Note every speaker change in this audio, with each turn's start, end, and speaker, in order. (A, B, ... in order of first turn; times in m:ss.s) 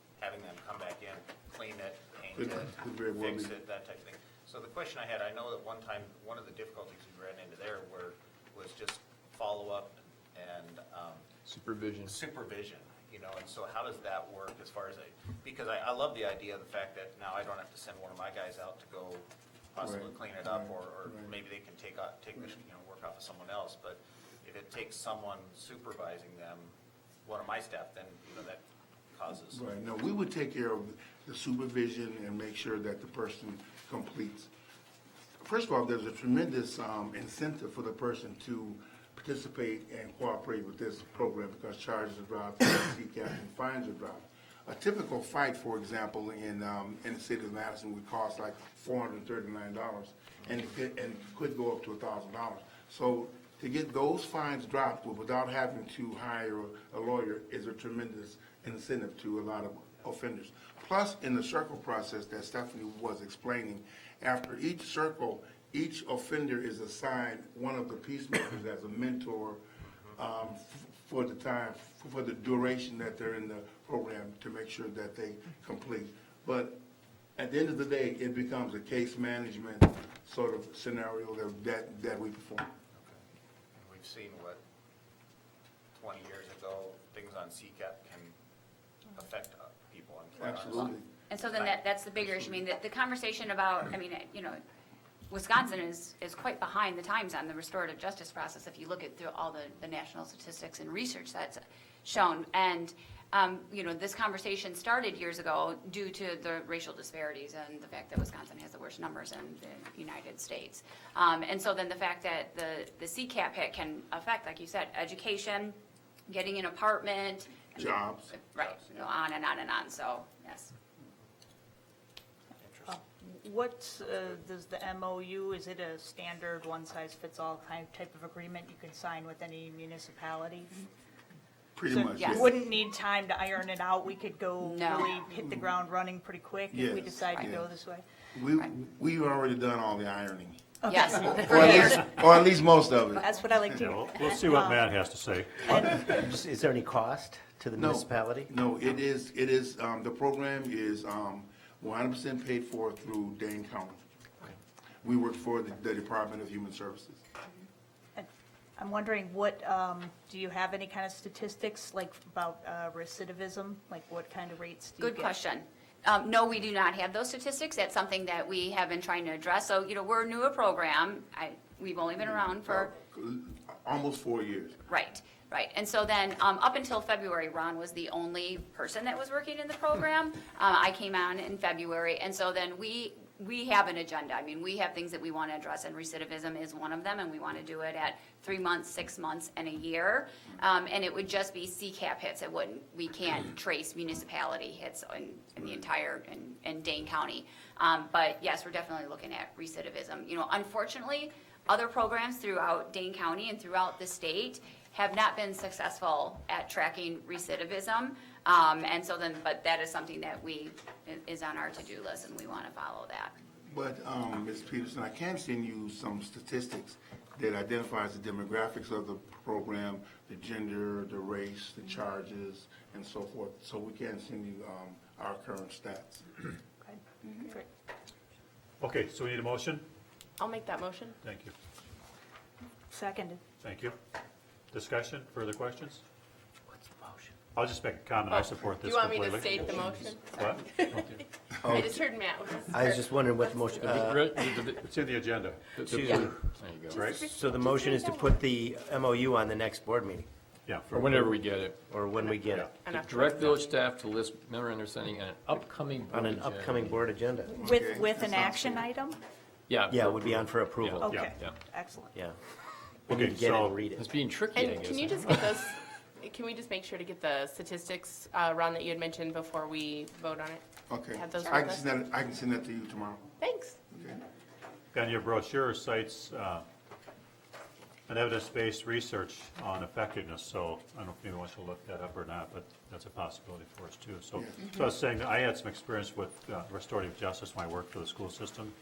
0:00.2-0:11.3 A
0:02.3-0:03.5 B
0:11.4-0:12.1 C
0:12.0-0:26.7 A
0:19.8-0:21.3 B
0:27.2-0:28.6 A
0:29.1-0:29.6 A
0:29.5-0:34.5 B
0:35.4-1:09.6 B
1:10.1-1:16.8 B
1:17.4-1:22.7 B
1:23.0-1:23.2 A
1:23.8-1:24.6 A
1:26.0-1:28.3 A
1:29.1-1:31.0 A
1:30.4-1:31.0 B
1:31.3-1:34.6 D
1:31.5-1:31.8 A
1:35.3-1:55.8 D
1:56.3-2:00.7 D
1:57.8-1:58.3 B
1:58.6-1:59.1 A
2:02.6-2:02.9 A
2:02.9-2:10.8 E
2:11.7-2:12.6 B
2:11.9-2:18.0 E
2:12.2-2:12.5 D
2:14.6-2:15.1 D
2:15.4-2:15.7 B
2:16.7-2:17.6 B
2:18.3-2:20.6 B
2:20.8-2:21.8 E
2:20.9-2:22.2 D
2:21.1-2:23.8 B
2:23.2-2:25.0 E
2:23.8-2:25.9 F
2:25.7-2:26.3 E
2:26.1-2:28.5 G
2:27.8-2:34.0 B
2:35.0-2:37.2 B
2:38.2-2:45.4 E
2:45.0-2:52.9 D
2:52.2-2:54.8 B
2:54.9-3:33.3 D
3:33.6-3:46.2 B
3:46.8-3:47.6 E
3:48.8-3:49.8 F
3:50.4-3:51.2 H
3:51.2-3:51.5 F
3:52.9-3:53.4 E
3:53.6-3:53.9 F
3:54.7-3:56.0 F
3:57.5-4:01.1 F
3:58.2-4:03.6 H
4:00.5-4:01.2 C
4:01.6-4:02.0 G
4:02.7-4:04.3 G
4:03.7-4:05.0 C
4:04.7-4:07.3 F
4:05.7-4:07.5 C
4:05.8-4:06.5 G
4:06.9-4:08.4 H
4:07.1-4:10.3 G
4:10.6-4:11.0 F
4:10.9-4:11.9 C
4:10.9-4:12.7 G
4:12.2-4:13.8 H
4:12.4-4:12.7 F
4:13.0-4:17.1 C
4:16.1-4:17.6 G
4:17.5-4:18.8 B
4:17.6-4:19.2 E
4:19.7-4:21.6 C
4:19.9-4:21.1 G
4:21.0-4:22.2 E
4:21.0-4:21.3 F
4:23.1-4:23.9 F
4:23.1-4:24.1 G
4:23.9-4:25.6 C
4:24.5-4:31.9 H
4:30.9-4:33.3 B
4:33.4-4:33.8 H
4:33.9-4:34.2 B
4:34.9-4:36.6 F
4:38.1-4:48.7 F